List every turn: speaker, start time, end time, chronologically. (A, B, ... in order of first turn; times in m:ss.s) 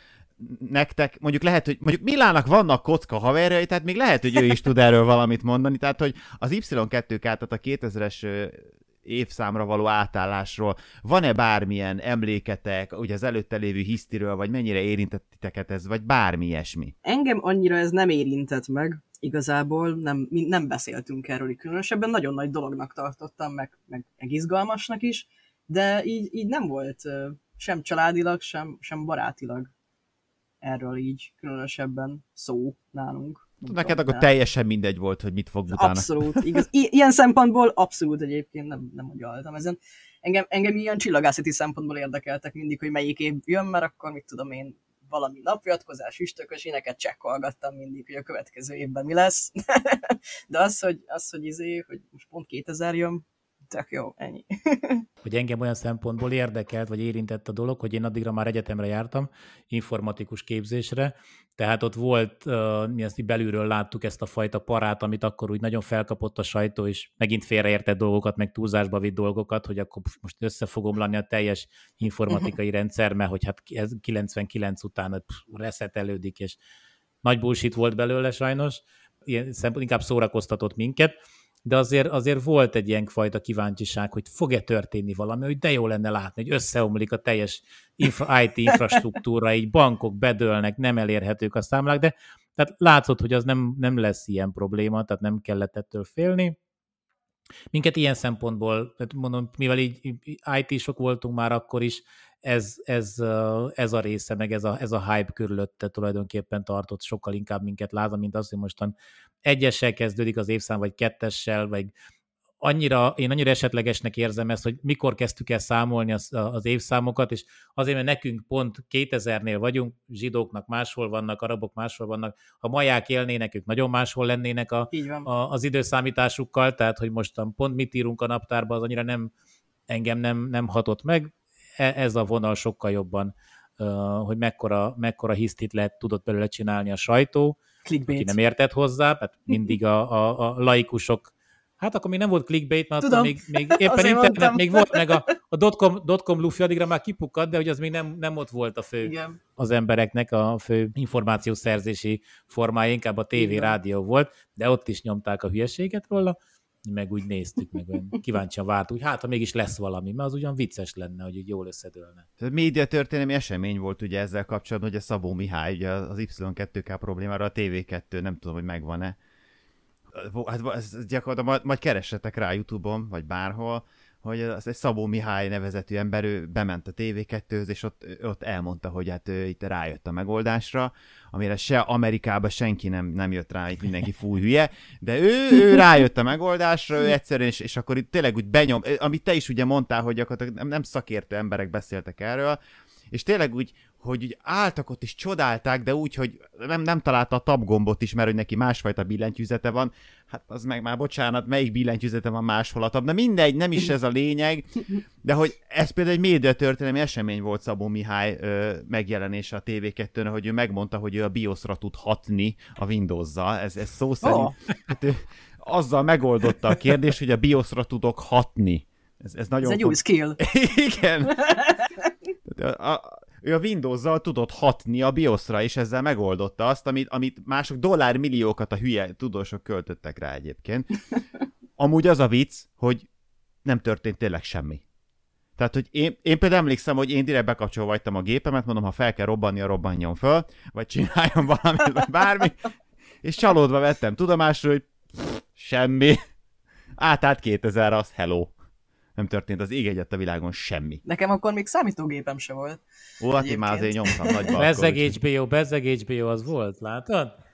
0:00.4-0:16.9 A
0:17.0-0:29.7 B
0:30.6-0:34.3 B
0:33.7-0:36.4 A
0:35.7-0:55.1 B
0:55.2-1:16.6 C
1:12.3-1:12.5 B
1:17.2-1:21.1 C
1:21.7-1:36.6 C
1:37.7-1:48.9 C
1:49.4-1:51.9 C
1:52.6-2:09.3 C
2:04.9-2:05.3 B
2:09.9-2:17.6 C
2:17.9-2:18.4 B
2:18.1-2:42.2 C
2:23.0-2:25.3 B
2:29.0-2:29.4 B
2:33.4-2:33.8 B
2:42.4-2:49.2 A
2:50.1-3:12.6 A
3:13.1-3:41.6 A
3:34.2-3:34.6 B
3:39.6-3:40.4 B
3:41.4-3:41.9 B
3:42.5-3:51.0 A
3:51.8-3:53.1 A
3:53.6-3:54.8 A
3:55.6-4:02.7 A
4:03.2-4:06.2 A
4:07.0-4:08.5 A
4:09.2-4:11.0 A
4:11.1-4:12.8 B
4:13.2-4:15.2 A
4:13.4-4:14.5 B
4:14.6-4:17.4 C